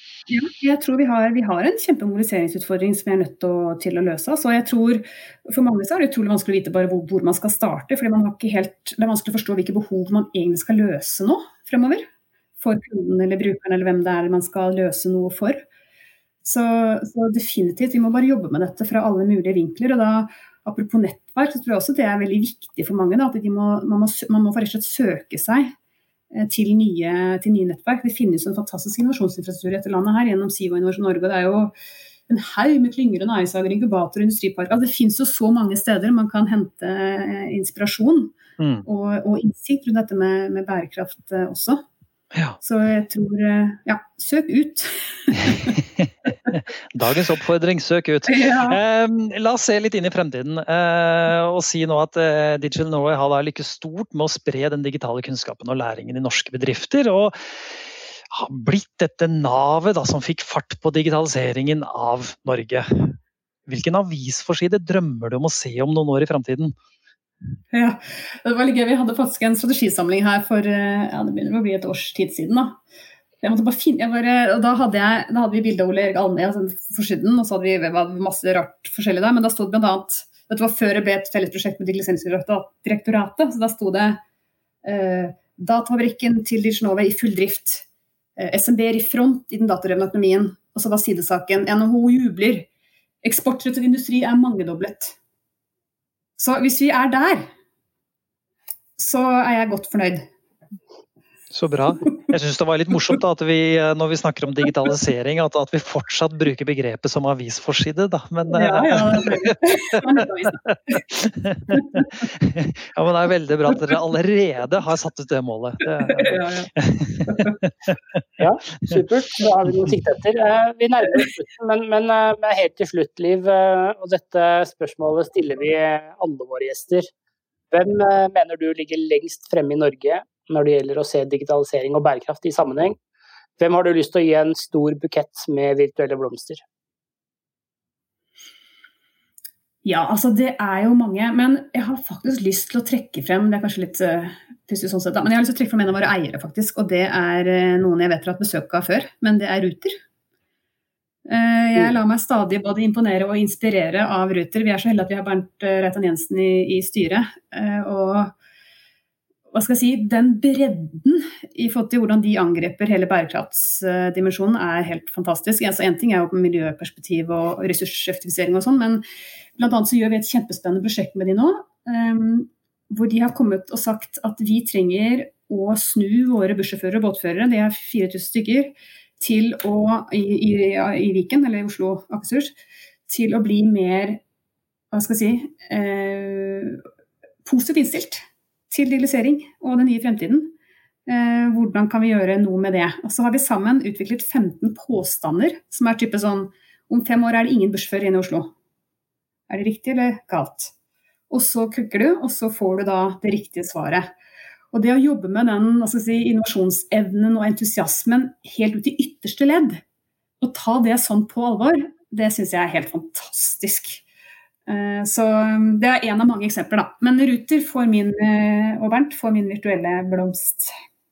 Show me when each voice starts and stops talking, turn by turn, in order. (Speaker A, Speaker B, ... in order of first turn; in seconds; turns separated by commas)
Speaker A: 0.3-12.1, Speaker A: 12.6-15.6, Speaker A: 16.4-25.7, Speaker A: 26.3-31.7, Speaker A: 32.3-38.4, Speaker B: 38.6-38.9, Speaker A: 38.9-41.8, Speaker A: 42.6-45.8, Speaker B: 45.7-66.7, Speaker A: 48.3-48.8, Speaker A: 67.7-72.8, Speaker A: 73.4-84.2, Speaker A: 84.8-87.8, Speaker A: 88.4-92.7, Speaker A: 93.2-95.2, Speaker A: 96.4-97.5, Speaker A: 99.0-100.3, Speaker B: 101.5-110.0, Speaker A: 108.5-111.0, Speaker B: 110.6-117.7, Speaker A: 111.7-112.1, Speaker A: 116.1-116.7, Speaker A: 117.2-117.6, Speaker C: 118.4-127.1, Speaker C: 127.7-133.0, Speaker C: 133.6-136.6, Speaker A: 139.8-150.0, Speaker A: 151.3-158.3, Speaker A: 159.5-169.0, Speaker A: 169.6-182.5, Speaker A: 183.1-184.2, Speaker A: 184.9-186.8, Speaker A: 187.4-190.5, Speaker A: 191.1-198.5, Speaker A: 199.5-200.7, Speaker A: 201.3-204.1, Speaker A: 204.7-209.8, Speaker A: 210.4-214.0, Speaker A: 214.7-220.7